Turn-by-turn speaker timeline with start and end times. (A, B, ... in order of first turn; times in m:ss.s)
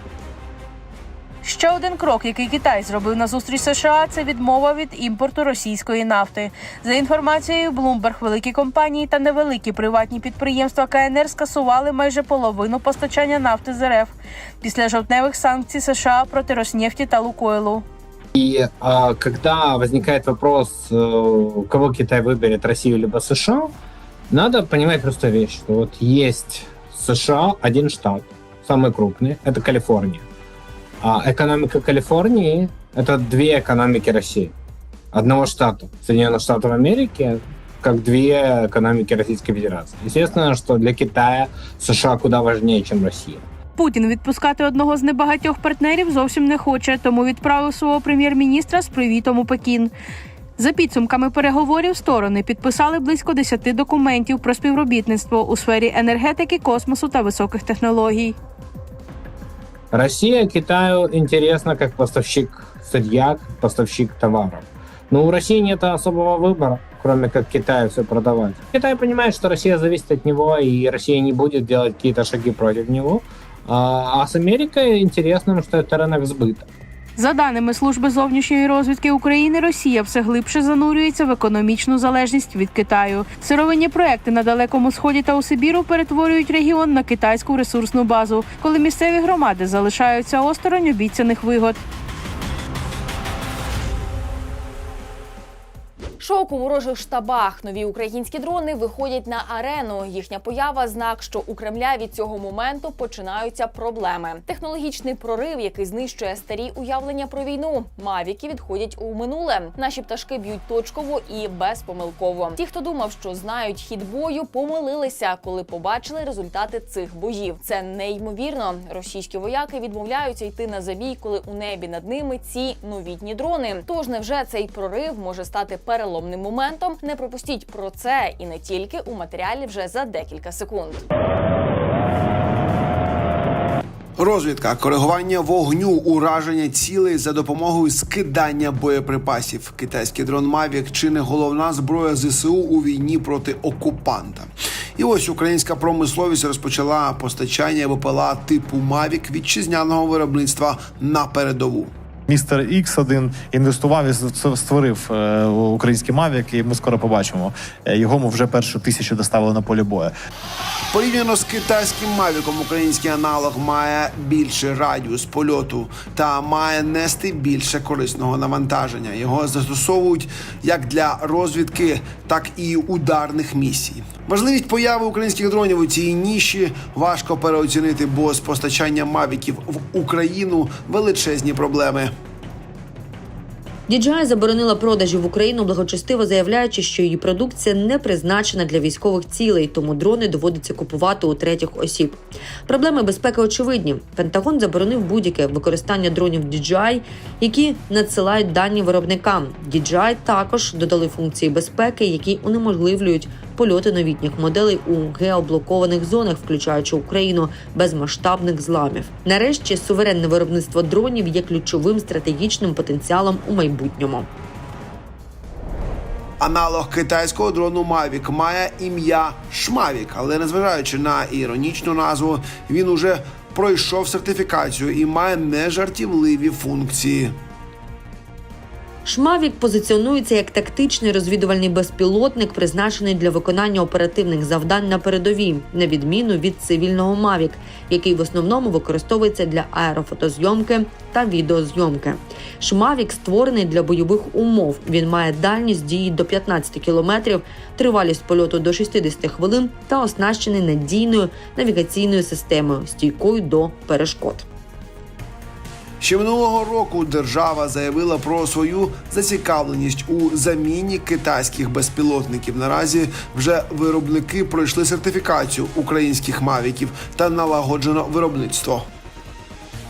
0:01.4-0:17.8 A
0:18.4-0:23.7 B
0:24.3-0:30.2 B
0:31.0-0:34.5 B
0:35.1-0:43.4 B
0:43.8-0:49.9 A
0:50.6-0:58.4 A
0:59.9-1:16.7 B
1:17.2-1:31.8 A
1:36.2-2:11.0 C
2:14.2-2:31.9 D
2:32.3-2:40.1 E
2:40.9-3:02.1 D
3:03.9-3:34.3 F
3:36.4-3:47.3 D
3:49.0-4:14.5 F
4:16.0-4:28.9 D